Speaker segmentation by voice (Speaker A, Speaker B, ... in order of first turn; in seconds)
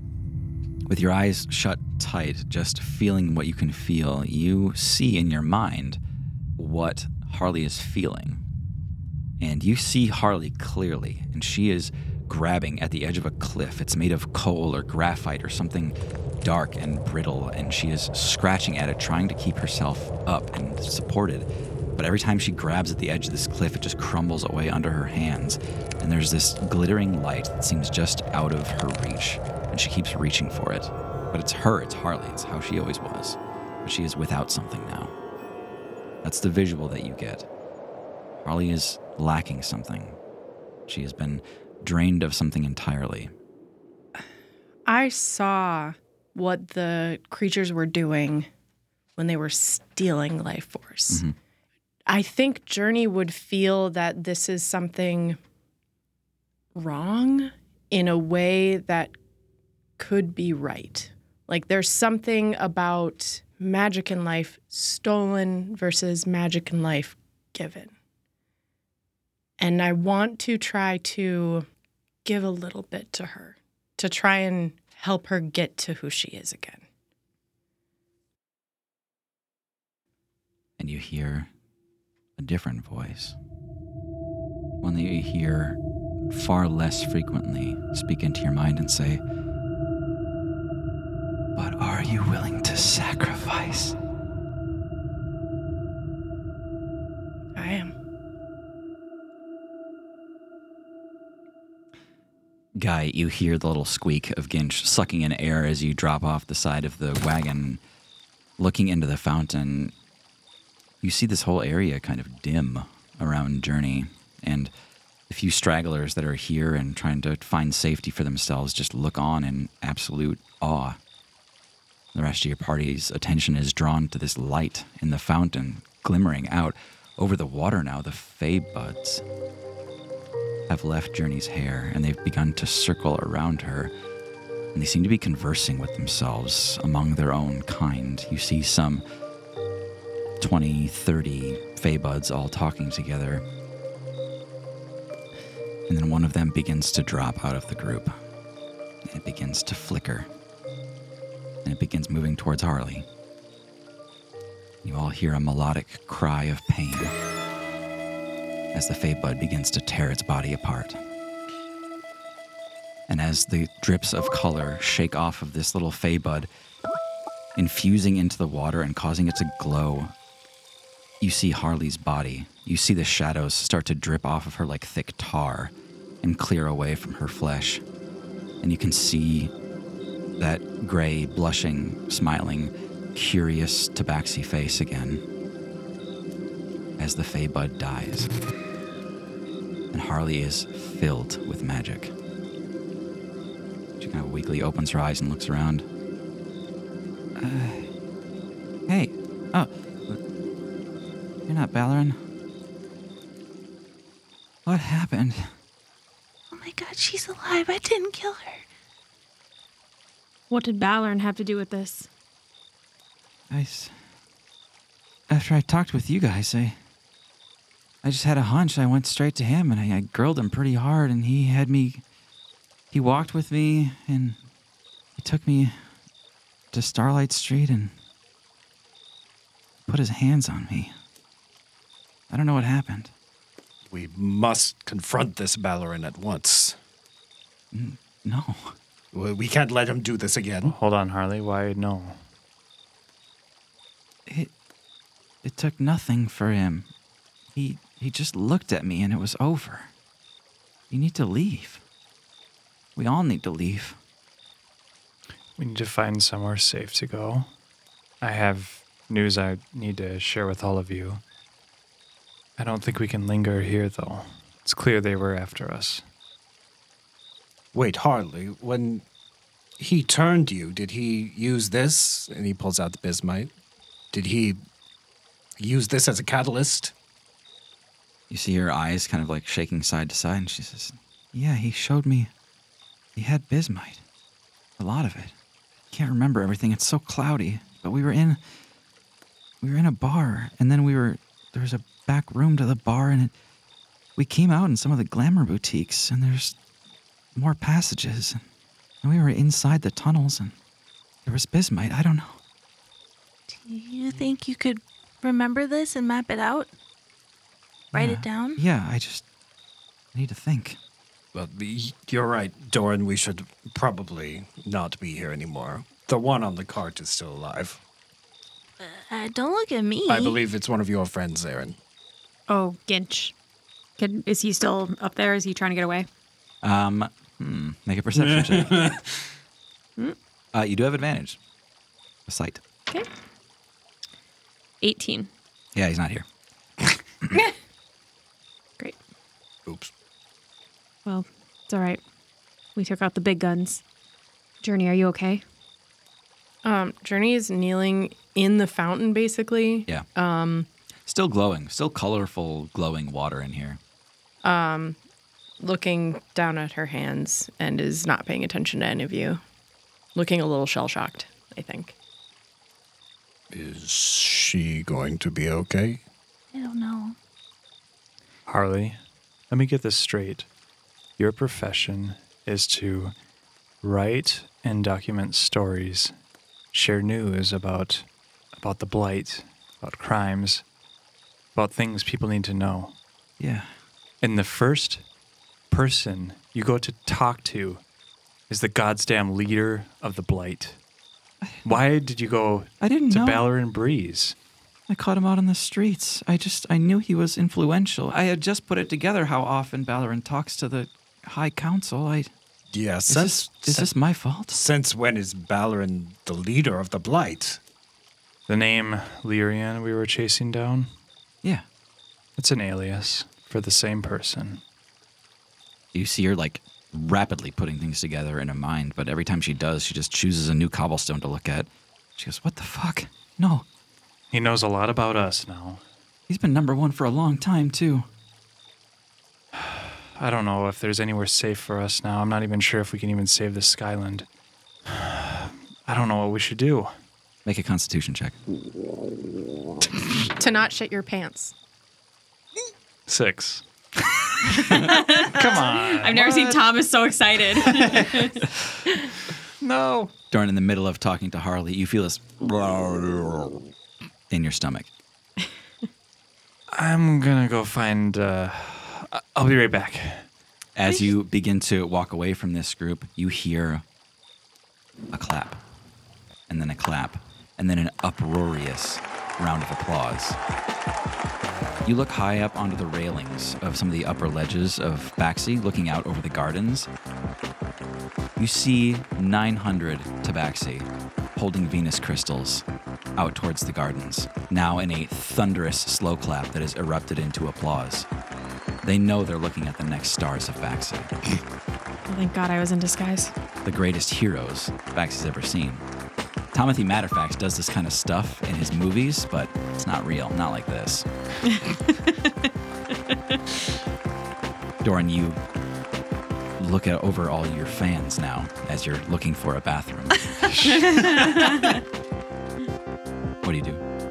Speaker A: 0.9-6.0, 6.6-8.4, 9.4-35.1, 36.2-37.5, 38.4-40.2, 40.9-43.3, 51.1-51.3, 80.8-81.5, 82.4-83.3, 84.8-85.8, 86.3-89.2, 91.5-94.0, 102.8-107.8, 108.6-109.9, 111.0-114.7, 115.3-121.0, 122.1-129.2, 130.7-133.9, 134.7-139.0, 140.4-143.4, 145.9-148.1, 149.1-150.3, 151.6-153.1, 154.8-157.1, 158.7-161.0, 163.1-166.5, 167.6-170.1, 171.2-177.8, 178.6-179.5, 180.4-185.2, 187.0-188.3, 189.9-192.1, 194.0-195.8, 197.4-197.9, 198.9-200.2, 201.5-202.2, 204.7-205.5, 213.5-213.9, 215.3-216.8, 218.0-222.0, 222.9-224.4, 225.2-225.7, 226.7-227.9, 229.9-230.9, 232.3-233.1, 237.7-238.8, 244.3-244.5, 245.4-246.9, 247.5-249.9, 250.9-251.8, 252.9-254.0, 278.3-282.3, 283.1-284.0, 284.8-285.3, 285.9-288.4, 289.6-293.3, 294.2-296.6, 297.3-298.4, 299.0-300.5, 301.2-302.4, 307.9-309.2, 310.1-310.8, 326.6-329.0, 330.5-331.4, 332.3-332.6, 335.7-336.2, 351.1-353.8, 383.4-383.7, 392.8-393.4, 394.9-402.3, 403.1-404.6, 415.9-423.6, 426.3-428.1, 437.4-438.4, 450.3-453.6, 454.3-454.9, 460.7-463.8, 465.1-465.6, 466.5-470.4, 471.8-476.9, 478.4-482.6, 483.1-488.1, 488.8-491.1, 493.6-495.8, 496.5-501.1, 504.8-505.4, 506.6-510.5, 513.4-513.8
Speaker B: 44.9-48.5, 49.2-51.2, 52.1-55.4, 56.7-59.1, 60.0-67.9, 69.6-71.7, 72.2-76.8, 97.5-97.9, 346.6-350.7, 354.4-355.0, 355.6-359.4, 360.1-361.9, 440.3-441.5
Speaker C: 206.5-208.6, 303.5-306.7, 307.9-308.6, 318.8-320.4, 366.5-367.1
Speaker D: 210.5-212.1, 322.5-323.3, 324.0-326.1, 334.8-335.3, 341.0-342.0, 342.8-343.8, 344.6-345.4, 444.7-448.5, 492.1-493.3, 501.5-502.5, 503.1-503.4, 510.9-511.8
Speaker E: 233.9-236.8, 239.1-240.8, 267.7-269.0, 269.8-273.5, 274.1-274.6, 275.6-276.9, 311.3-317.8, 320.1-321.8, 328.1-329.2, 339.6-339.9, 363.5-366.0, 402.7-403.9, 404.5-407.6
Speaker F: 240.6-242.2, 255.6-257.5, 258.2-261.2, 262.6-266.0, 368.5-369.0, 369.5-370.5, 371.2-373.1, 373.8-376.1, 376.7-380.6, 381.5-382.9, 384.2-385.0, 385.7-387.8, 388.5-390.8, 391.6-394.4, 408.5-410.9, 412.4-414.6, 424.3-425.8, 429.6-434.3, 434.9-436.9, 443.1-446.8, 447.6-448.4, 449.6-450.1, 456.7-460.2, 510.6-511.4